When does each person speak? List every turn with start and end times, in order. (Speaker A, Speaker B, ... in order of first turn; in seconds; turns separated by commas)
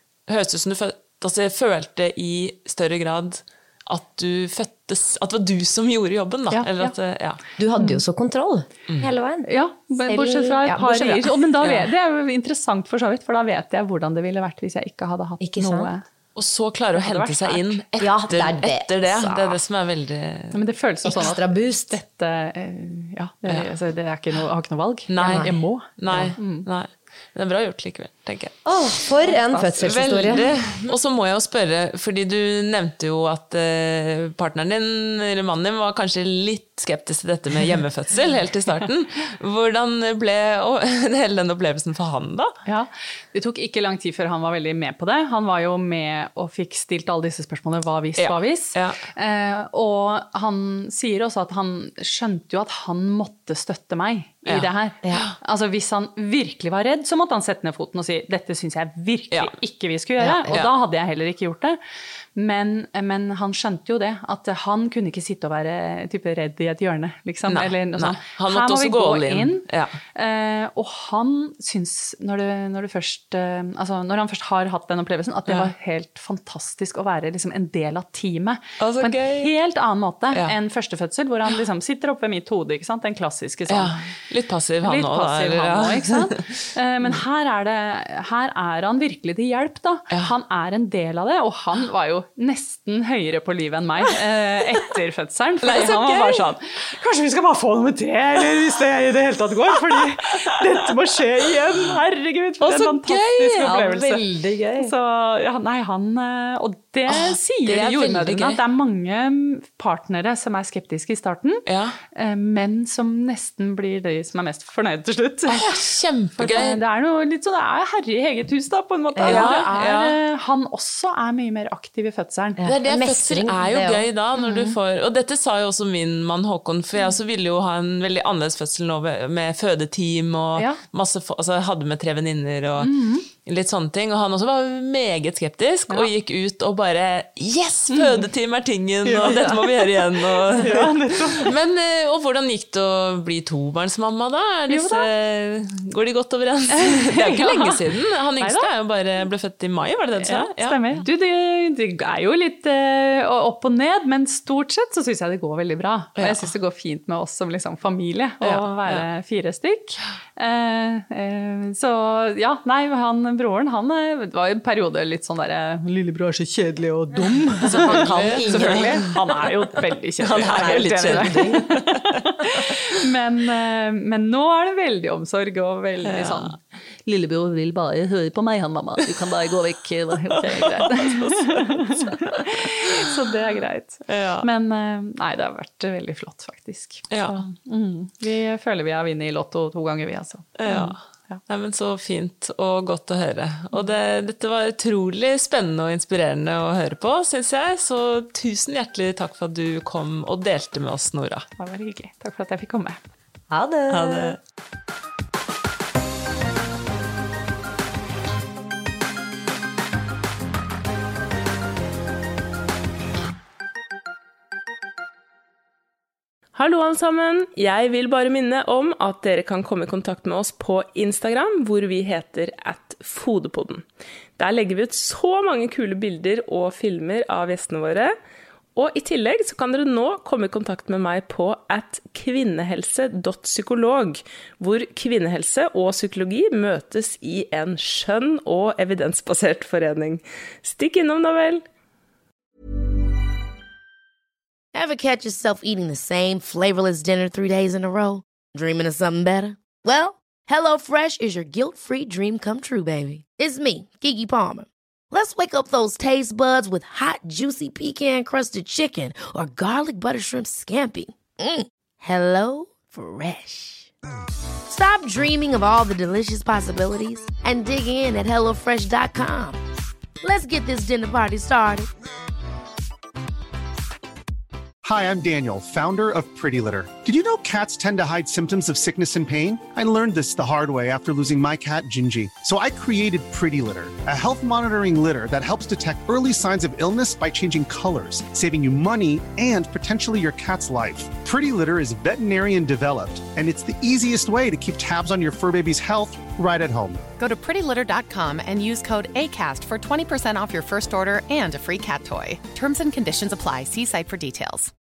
Speaker A: 0.3-7.4, Speaker B: 6.5-6.9, Speaker C: 7.6-11.3, Speaker B: 7.8-8.0, Speaker B: 9.4-16.0, Speaker A: 11.6-11.9, Speaker C: 15.4-15.9, Speaker A: 16.3-20.6, Speaker B: 16.9-17.8, Speaker C: 18.0-19.5, Speaker B: 20.5-26.6, Speaker C: 21.0-22.0, Speaker A: 25.1-28.7, Speaker C: 25.2-25.5, Speaker C: 28.6-30.9, Speaker B: 29.4-29.9, Speaker A: 29.8-42.5, Speaker B: 42.6-61.8, Speaker A: 48.2-49.0, Speaker A: 54.5-55.3, Speaker C: 60.2-60.5, Speaker A: 60.5-60.7, Speaker B: 62.3-84.1, Speaker A: 67.5-70.0, Speaker A: 78.8-79.5, Speaker A: 83.7-87.2, Speaker B: 84.8-104.2, Speaker A: 95.6-96.5, Speaker A: 102.6-103.9, Speaker C: 103.6-104.9, Speaker B: 104.8-115.8, Speaker A: 107.1-108.6, Speaker A: 111.7-112.0, Speaker A: 115.5-116.8, Speaker B: 116.3-122.6, Speaker C: 119.1-119.7, Speaker A: 119.2-120.2, Speaker C: 122.6-124.1, Speaker A: 122.7-151.0, Speaker B: 124.4-124.7, Speaker B: 130.6-130.8, Speaker B: 132.8-133.2, Speaker B: 137.9-138.2, Speaker B: 139.0-141.5, Speaker B: 144.7-145.1, Speaker B: 146.7-147.8, Speaker B: 148.4-148.7, Speaker B: 150.2-191.4, Speaker A: 156.2-156.5, Speaker A: 158.4-159.1, Speaker A: 167.6-169.1, Speaker C: 167.7-169.0, Speaker A: 170.2-172.2, Speaker C: 170.4-171.8, Speaker A: 176.0-176.5, Speaker A: 180.6-182.1, Speaker A: 184.1-184.5, Speaker A: 187.1-187.4, Speaker A: 190.6-201.4, Speaker B: 201.6-203.0, Speaker C: 203.5-204.4, Speaker A: 203.9-204.4, Speaker D: 216.5-228.1, Speaker D: 228.8-241.6, Speaker E: 244.7-263.9, Speaker E: 264.7-269.6, Speaker E: 270.2-271.9, Speaker F: 274.8-297.1, Speaker G: 297.2-304.7